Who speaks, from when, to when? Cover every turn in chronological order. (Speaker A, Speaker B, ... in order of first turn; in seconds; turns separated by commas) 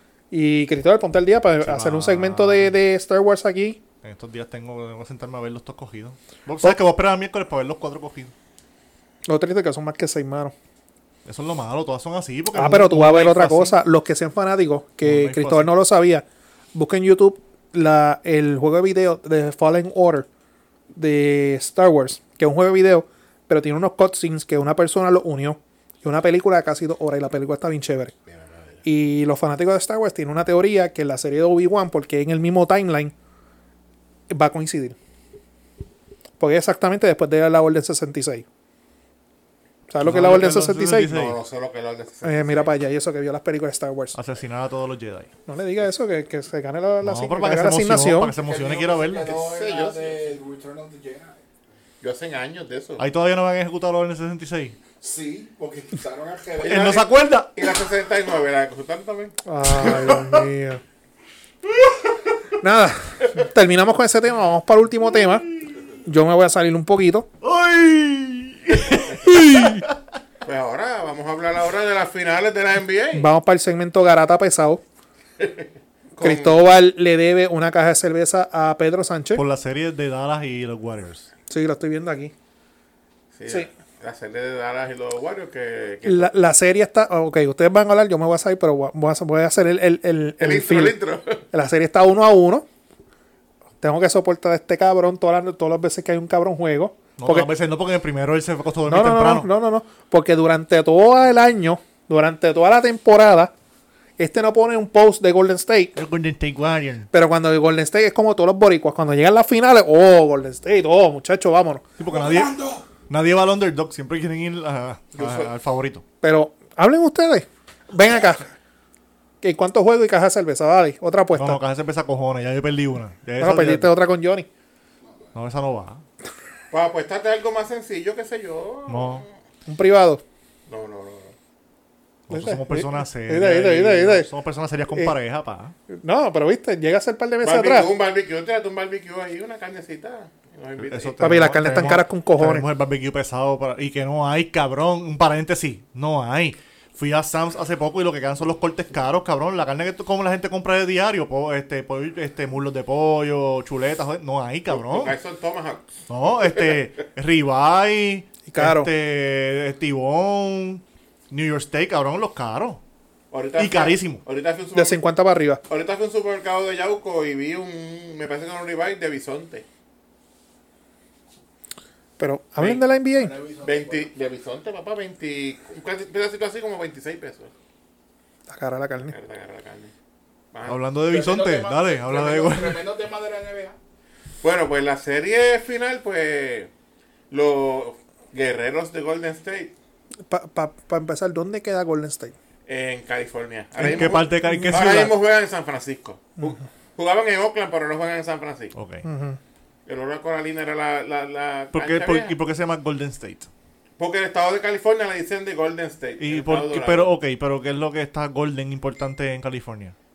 Speaker A: 0.3-3.8, Speaker B: 1.6-2.8, Speaker B: 4.0-8.3, Speaker A: 9.3-10.5, Speaker B: 11.2-13.8, Speaker A: 12.6-20.3, Speaker B: 15.0-15.7, Speaker A: 20.9-28.1, Speaker C: 28.3-28.7, Speaker A: 28.9-33.1, Speaker A: 34.3-35.0, Speaker A: 36.4-38.5, Speaker A: 39.9-41.1, Speaker B: 40.0-41.4, Speaker C: 41.0-42.7, Speaker A: 42.2-44.2, Speaker B: 44.1-45.3, Speaker A: 45.5-48.4, Speaker B: 47.0-49.3, Speaker D: 48.4-51.4, Speaker C: 49.2-50.3, Speaker C: 52.0-53.1, Speaker B: 53.0-54.8, Speaker D: 55.0-56.9, Speaker C: 56.6-60.2, Speaker B: 56.6-57.5, Speaker A: 59.5-60.8, Speaker B: 61.8-62.1, Speaker A: 62.6-65.5, Speaker A: 66.0-67.3, Speaker B: 67.4-70.0, Speaker A: 69.3-69.8, Speaker C: 70.4-73.3, Speaker A: 73.1-74.8, Speaker C: 75.4-76.6, Speaker A: 76.2-79.4, Speaker B: 79.3-81.3, Speaker A: 81.5-82.3, Speaker C: 83.3-86.3, Speaker A: 86.0-91.0, Speaker C: 90.4-91.5, Speaker A: 91.5-92.7, Speaker A: 93.8-97.5, Speaker B: 97.2-99.5, Speaker A: 98.9-103.5, Speaker A: 104.2-106.0, Speaker B: 106.0-107.1, Speaker A: 107.1-111.8, Speaker B: 112.0-112.6, Speaker D: 112.1-112.8, Speaker B: 113.1-116.0, Speaker C: 115.2-115.5, Speaker A: 116.2-118.5, Speaker A: 119.4-121.6, Speaker B: 121.3-123.9, Speaker A: 123.4-124.5, Speaker B: 125.3-126.0, Speaker C: 126.7-129.3, Speaker B: 128.9-129.2, Speaker A: 129.7-130.2, Speaker C: 130.7-131.3, Speaker B: 132.3-135.8, Speaker A: 132.3-134.3, Speaker A: 135.9-137.9, Speaker C: 137.4-141.4, Speaker B: 140.8-155.2, Speaker A: 141.2-142.7, Speaker C: 154.7-155.9, Speaker B: 156.1-162.8, Speaker C: 156.5-156.8, Speaker A: 158.5-158.9, Speaker C: 163.3-165.0, Speaker B: 163.6-164.2, Speaker A: 164.8-165.6, Speaker C: 165.7-169.7, Speaker A: 172.2-173.3, Speaker D: 173.2-174.1, Speaker C: 173.6-177.5, Speaker A: 178.5-179.2, Speaker C: 179.1-179.9, Speaker C: 180.5-180.8, Speaker B: 180.7-182.8, Speaker D: 181.1-183.8, Speaker C: 184.4-186.7, Speaker C: 187.3-189.7, Speaker A: 190.3-192.3, Speaker C: 192.7-198.8, Speaker B: 193.8-195.1, Speaker A: 193.9-194.7, Speaker B: 198.8-199.1, Speaker A: 199.0-199.4, Speaker C: 199.9-202.4, Speaker B: 201.7-203.5, Speaker C: 204.0-207.1, Speaker B: 206.2-209.9